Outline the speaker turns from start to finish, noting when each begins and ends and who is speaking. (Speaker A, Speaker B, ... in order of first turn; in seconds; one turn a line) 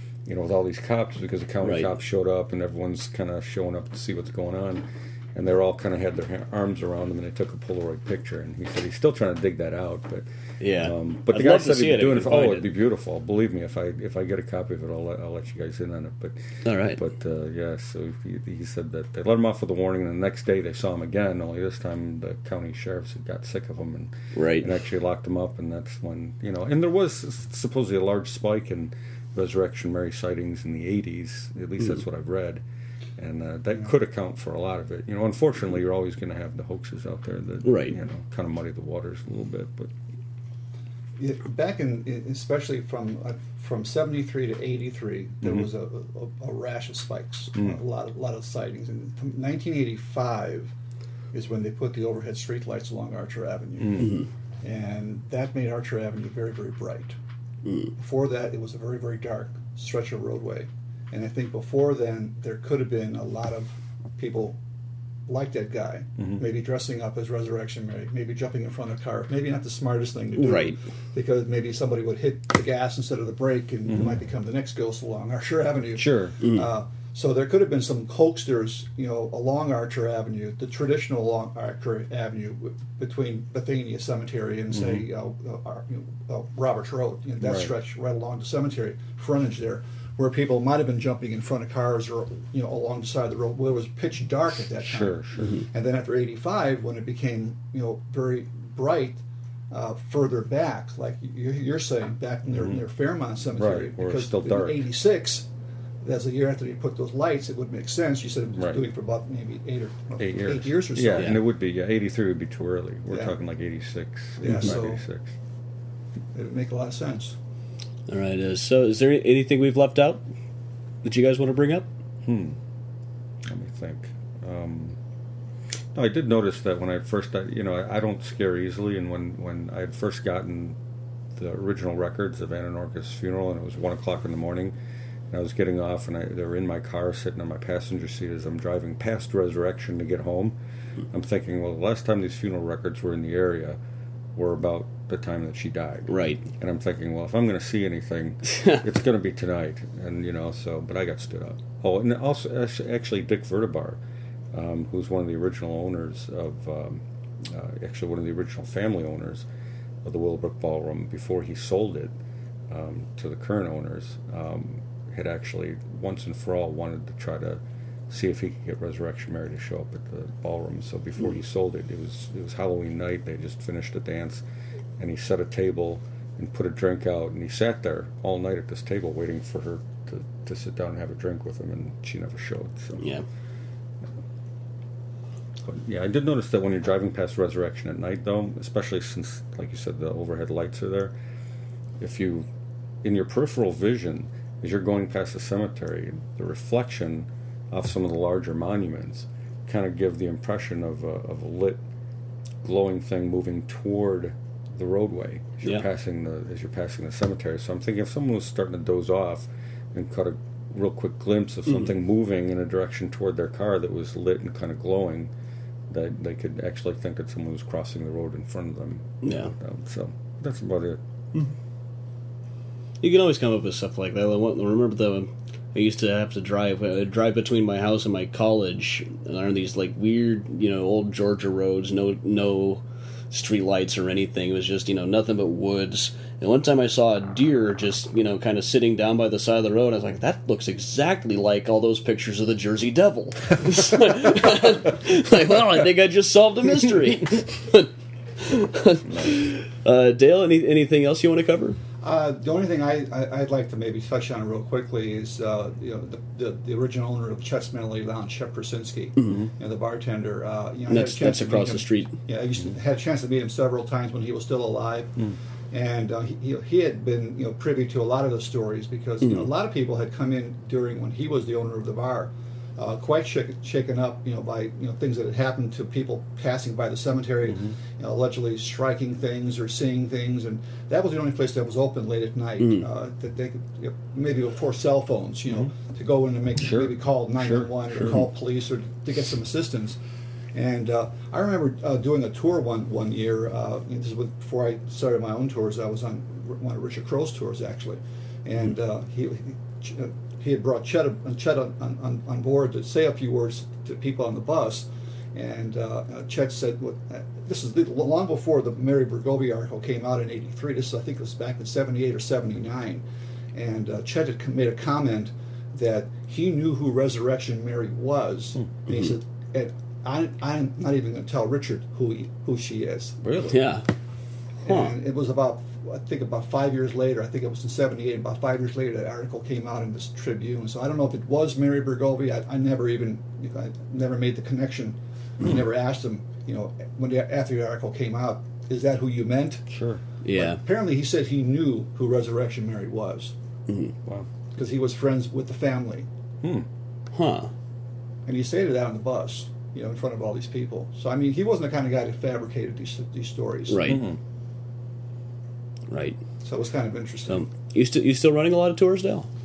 Speaker A: 0.3-10.3
Speaker B: 1.6-1.9
Speaker B: 10.6-12.7
Speaker A: 10.8-16.4
Speaker B: 16.6-17.0
Speaker A: 16.9-32.6
Speaker B: 24.3-24.7
Speaker A: 33.2-39.9
Speaker B: 37.6-38.0
Speaker C: 41.2-50.7
Speaker C: 51.3-54.1
Speaker B: 54.0-54.3
Speaker C: 54.6-57.1
Speaker B: 57.6-57.9
Speaker C: 58.0-64.6
Speaker C: 65.3-105.5
Speaker B: 70.4-70.8
Speaker A: 73.9-74.2
Speaker A: 76.0-76.3
Speaker B: 76.4-76.7
Speaker A: 84.7-85.0
Speaker A: 87.4-87.7
Speaker A: 94.8-95.6
Speaker A: 103.5-104.8
Speaker C: 106.0-111.4
Speaker A: 110.2-115.4
Speaker C: 113.1-113.4
Speaker C: 114.4-115.0
Speaker C: 116.3-117.4
Speaker B: 118.1-120.2
Speaker B: 121.0-121.9
Speaker A: 122.2-122.6
Speaker A: 123.4-125.0
Speaker A: 125.9-130.8
Speaker A: 131.4-134.7
Speaker A: 135.3-140.6
Speaker A: 141.1-143.8
Speaker A: 144.3-154.0
Speaker B: 146.1-146.4
Speaker A: 154.5-159.4
Speaker A: 160.0-162.1
Speaker A: 162.7-174.4
Speaker A: 175.0-183.1
Speaker B: 183.0-183.2
Speaker A: 185.6-191.1
Speaker A: 192.0-192.5
Speaker A: 193.0-201.8
Speaker A: 202.6-215.3
Speaker A: 215.9-221.0
Speaker B: 219.2-219.5
Speaker B: 223.0-251.8
Speaker C: 252.0-290.0
Speaker B: 260.9-262.1
Speaker B: 282.6-282.9
Speaker A: 286.6-287.7
Speaker C: 290.5-313.0
Speaker C: 313.5-323.2
Speaker A: 323.2-323.6
Speaker B: 323.5-323.9
Speaker C: 324.6-339.6
Speaker A: 339.7-340.0
Speaker B: 340.2-340.6
Speaker C: 340.4-343.3
Speaker B: 343.7-343.9
Speaker C: 344.6-346.1
Speaker A: 346.4-346.7
Speaker B: 347.1-347.5
Speaker C: 348.3-354.0
Speaker B: 353.7-354.0
Speaker A: 353.9-354.2
Speaker B: 355.9-356.2
Speaker C: 356.4-357.5
Speaker B: 357.3-359.3